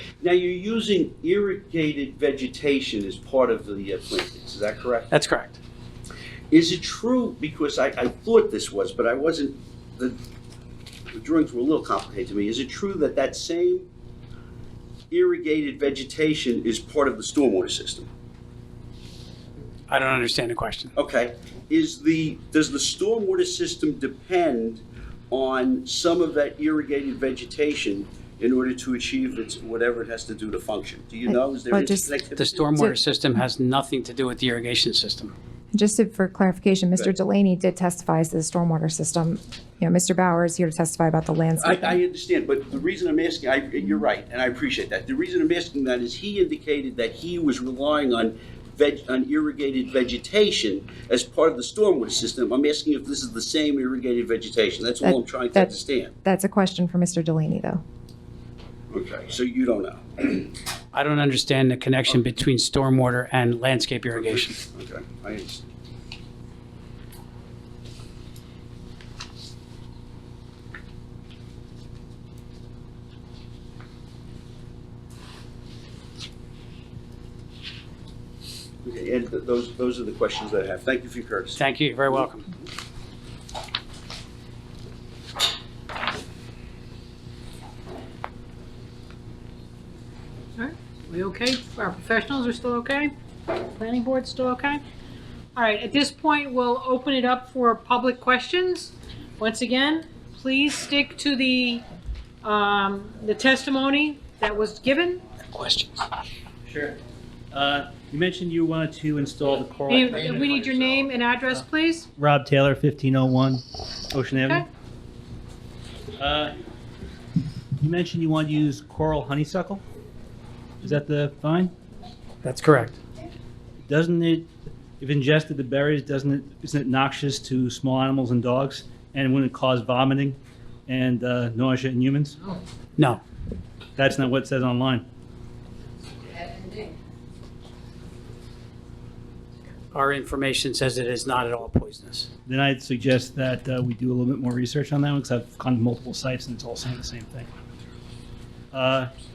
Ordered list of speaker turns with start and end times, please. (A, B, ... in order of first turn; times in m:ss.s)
0:00.2-0:05.1 A
0:05.1-0:05.6 B
0:06.5-0:10.2 A
0:11.1-0:13.9 A
0:15.1-0:18.1 A
0:19.9-0:20.9 B
0:21.0-0:32.7 A
0:31.3-0:32.1 C
0:32.4-0:35.4 B
0:35.7-0:42.0 C
0:41.6-0:56.1 A
0:55.0-0:57.8 C
0:58.9-1:00.5 A
1:00.9-1:04.6 B
1:04.2-1:05.7 A
1:18.8-1:21.6 A
1:21.6-1:22.5 B
1:30.6-1:33.1 D
1:33.8-1:34.8 D
1:35.6-1:41.8 D
1:42.4-1:45.2 D
1:45.5-1:46.0 B
1:46.7-1:47.0 E
1:47.5-1:51.6 E
1:49.9-1:52.1 D
1:52.2-1:54.7 E
1:56.2-1:56.6 E
1:57.8-1:59.8 E
2:00.8-2:01.7 E
2:02.4-2:03.0 B
2:03.9-2:04.5 E
2:05.0-2:12.4 E
2:14.0-2:15.0 E
2:19.9-2:22.3 B
2:22.5-2:27.5 E
2:28.7-2:29.1 E